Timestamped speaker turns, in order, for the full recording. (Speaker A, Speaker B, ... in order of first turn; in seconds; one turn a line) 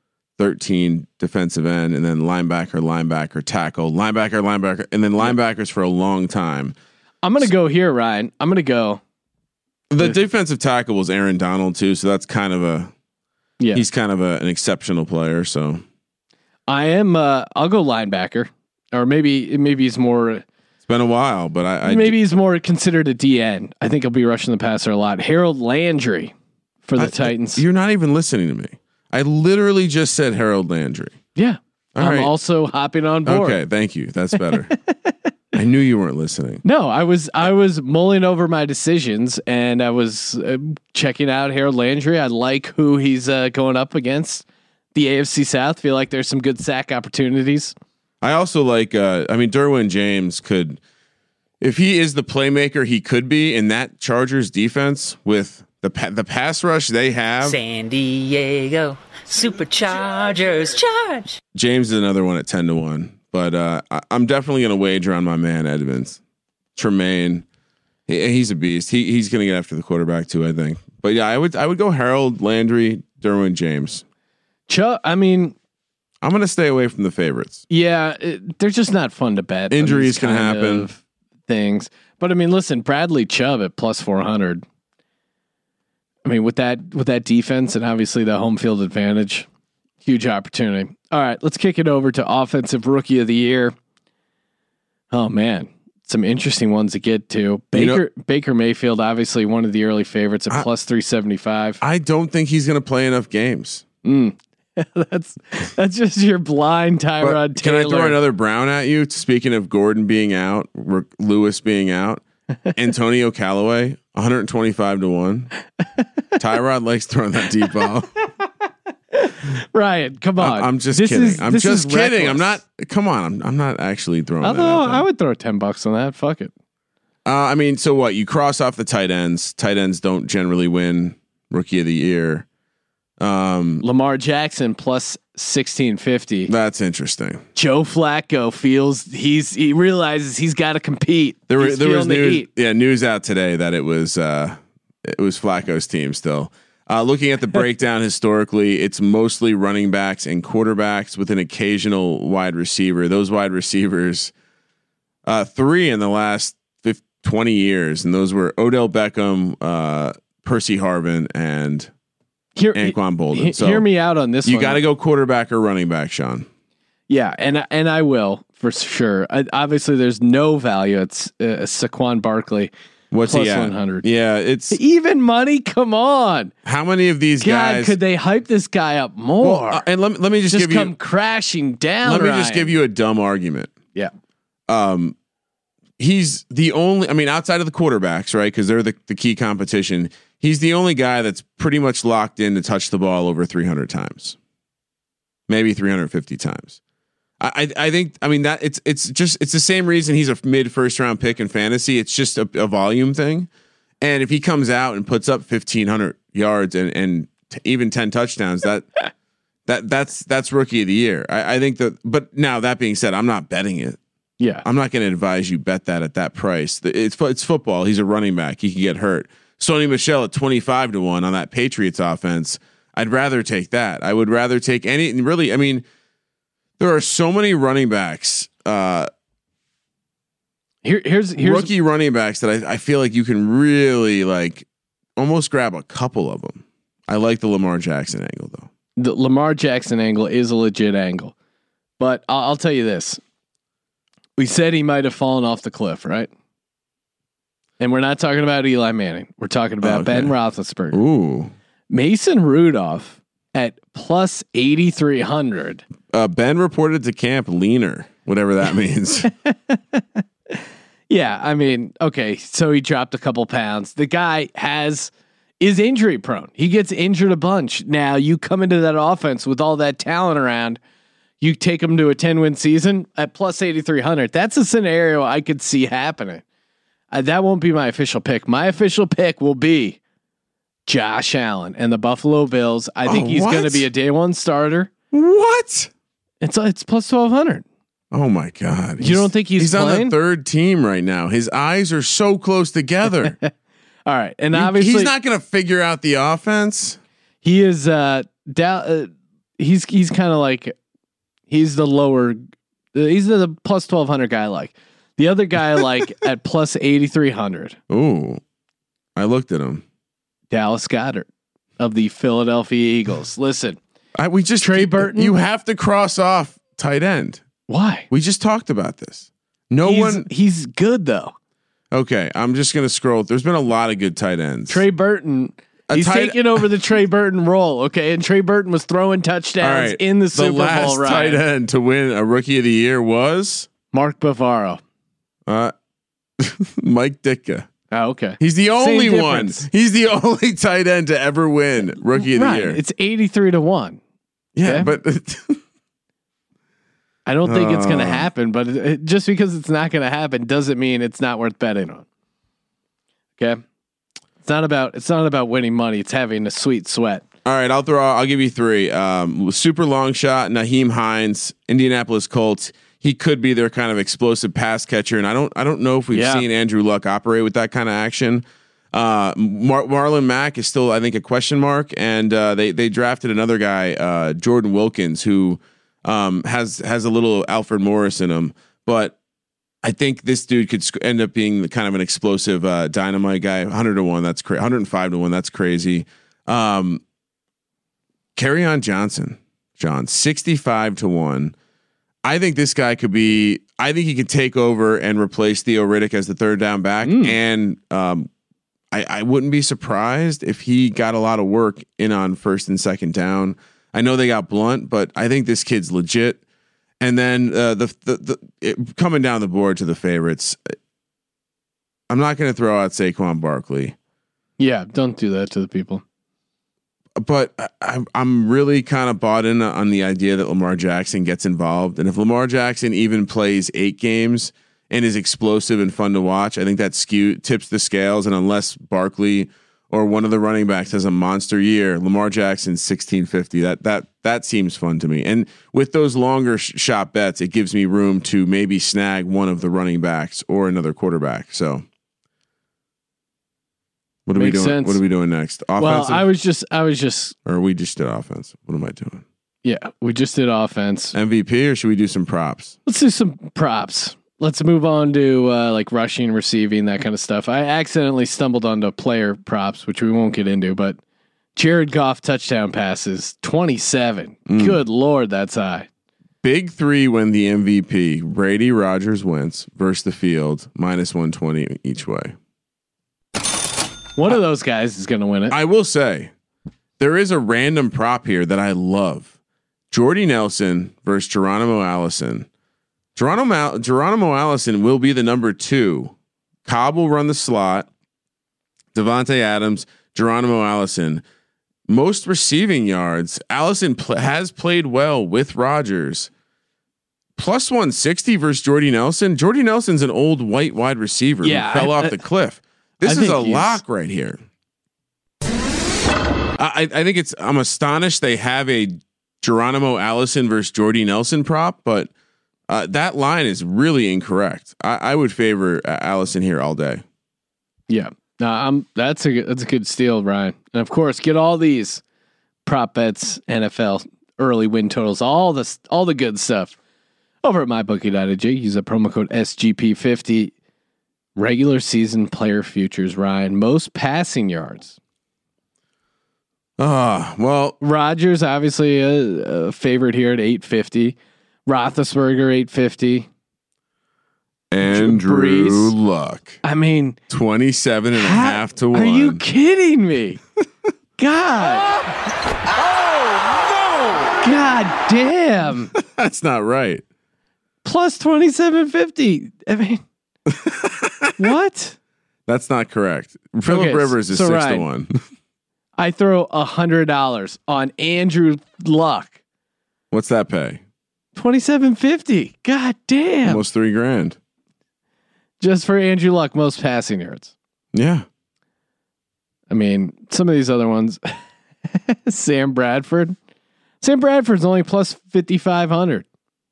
Speaker A: 0.4-6.8
Speaker B: 7.2-9.0
Speaker A: 9.9-12.9
Speaker A: 13.7-15.8
Speaker B: 16.7-20.4
Speaker A: 20.9-22.2
Speaker B: 21.8-26.3
Speaker B: 26.9-27.6
Speaker A: 27.0-31.2
Speaker B: 31.4-33.6
Speaker A: 31.9-32.3
Speaker A: 33.2-34.7
Speaker A: 35.5-36.6
Speaker B: 36.6-47.8
Speaker A: 48.2-50.8
Speaker A: 51.6-57.6
Speaker C: 57.4-61.4
Speaker A: 61.5-66.2
Speaker A: 66.8-67.5
Speaker A: 68.1-74.0
Speaker B: 74.7-75.5
Speaker A: 76.2-77.6
Speaker B: 77.7-84.6
Speaker A: 79.7-80.9
Speaker B: 86.2-89.5
Speaker B: 90.0-93.8
Speaker B: 95.1-101.8
Speaker A: 97.7-98.0
Speaker A: 101.8-103.8
Speaker B: 104.0-108.2
Speaker A: 107.2-115.5
Speaker A: 116.4-118.1
Speaker B: 119.1-122.6
Speaker A: 120.4-125.0
Speaker B: 124.4-126.5
Speaker A: 127.2-132.5
Speaker A: 133.2-133.8
Speaker B: 133.8-136.5
Speaker A: 136.5-137.4
Speaker B: 137.6-142.5
Speaker A: 141.5-154.3
Speaker A: 155.2-161.9
Speaker B: 162.6-164.8
Speaker A: 162.8-163.9
Speaker A: 164.4-166.5
Speaker B: 167.1-172.7
Speaker A: 173.1-174.8
Speaker B: 173.2-174.1
Speaker B: 174.7-176.5
Speaker A: 176.7-178.0
Speaker B: 177.4-179.9
Speaker A: 179.4-180.9
Speaker B: 180.5-182.8
Speaker A: 182.0-183.7
Speaker A: 184.7-185.2
Speaker A: 186.0-194.4
Speaker A: 195.5-196.8
Speaker A: 197.4-203.5
Speaker A: 204.0-208.9
Speaker A: 209.7-214.0
Speaker A: 214.6-225.8
Speaker A: 226.8-229.1
Speaker B: 230.8-231.7
Speaker A: 231.4-234.7
Speaker A: 235.2-238.7
Speaker B: 239.0-241.3
Speaker B: 242.0-243.2
Speaker B: 244.4-246.3
Speaker B: 247.8-251.0
Speaker A: 249.8-250.3
Speaker A: 250.9-251.5
Speaker B: 251.9-255.8
Speaker A: 256.1-259.3
Speaker B: 259.4-270.8
Speaker B: 271.4-276.4
Speaker B: 277.1-280.0
Speaker B: 280.9-284.9
Speaker A: 283.1-283.9
Speaker A: 285.1-285.9
Speaker B: 286.4-287.6
Speaker A: 288.1-293.4
Speaker B: 289.0-290.1
Speaker B: 294.1-295.1
Speaker A: 294.5-297.0
Speaker B: 297.4-300.8
Speaker B: 301.5-302.4
Speaker B: 302.9-307.8
Speaker A: 307.9-308.4
Speaker A: 309.2-309.8
Speaker B: 310.5-311.3
Speaker B: 311.8-313.8
Speaker A: 314.2-317.4
Speaker B: 314.6-315.4
Speaker B: 317.7-318.1
Speaker A: 318.1-320.3
Speaker B: 319.8-321.3
Speaker A: 321.9-324.8
Speaker B: 324.7-331.4
Speaker A: 325.9-326.7
Speaker A: 329.6-333.7
Speaker B: 333.9-334.8
Speaker A: 335.5-335.7
Speaker A: 336.4-337.7
Speaker B: 337.9-339.7
Speaker A: 338.4-342.8
Speaker B: 342.2-344.0
Speaker A: 344.6-345.6
Speaker B: 344.6-344.9
Speaker B: 347.3-352.1
Speaker A: 347.4-348.3
Speaker B: 354.4-357.2
Speaker A: 357.4-379.2
Speaker B: 366.1-366.4
Speaker A: 379.8-387.0
Speaker A: 388.4-391.6
Speaker A: 392.2-398.3
Speaker B: 397.0-397.4
Speaker A: 398.9-406.4
Speaker A: 407.0-410.7
Speaker A: 412.1-414.0
Speaker B: 414.6-416.0
Speaker A: 417.2-441.9
Speaker A: 444.3-446.3
Speaker B: 444.4-445.0
Speaker B: 445.8-447.4
Speaker A: 447.4-449.2
Speaker B: 449.6-451.1
Speaker A: 451.1-452.8
Speaker B: 452.9-461.0
Speaker B: 461.6-465.9
Speaker A: 464.5-464.8
Speaker A: 466.4-472.4
Speaker B: 474.2-475.6
Speaker A: 475.5-476.3
Speaker A: 477.0-479.3
Speaker A: 479.9-482.5
Speaker A: 483.1-486.1
Speaker A: 486.6-487.9
Speaker A: 488.9-491.2
Speaker A: 491.9-496.3
Speaker A: 497.4-504.4
Speaker B: 501.4-502.2
Speaker B: 503.0-503.8
Speaker A: 506.6-512.1
Speaker A: 512.7-517.0
Speaker B: 517.9-522.0
Speaker B: 522.7-526.8
Speaker B: 527.4-530.5
Speaker B: 531.4-535.0
Speaker A: 536.8-537.8
Speaker B: 537.8-543.3
Speaker A: 544.7-546.6
Speaker B: 544.8-546.0
Speaker B: 546.6-547.2
Speaker A: 547.3-549.4
Speaker B: 548.1-550.4
Speaker B: 551.2-551.9
Speaker B: 554.4-555.9
Speaker A: 555.9-557.0
Speaker B: 557.8-560.0
Speaker A: 560.5-561.5
Speaker B: 561.4-562.0
Speaker A: 562.5-565.2
Speaker B: 563.7-564.9
Speaker B: 566.0-569.4
Speaker A: 570.1-570.8
Speaker B: 571.4-573.6
Speaker A: 573.5-574.4
Speaker B: 575.6-577.5
Speaker A: 577.9-578.3
Speaker B: 579.7-581.4
Speaker B: 581.9-583.4
Speaker B: 584.0-586.2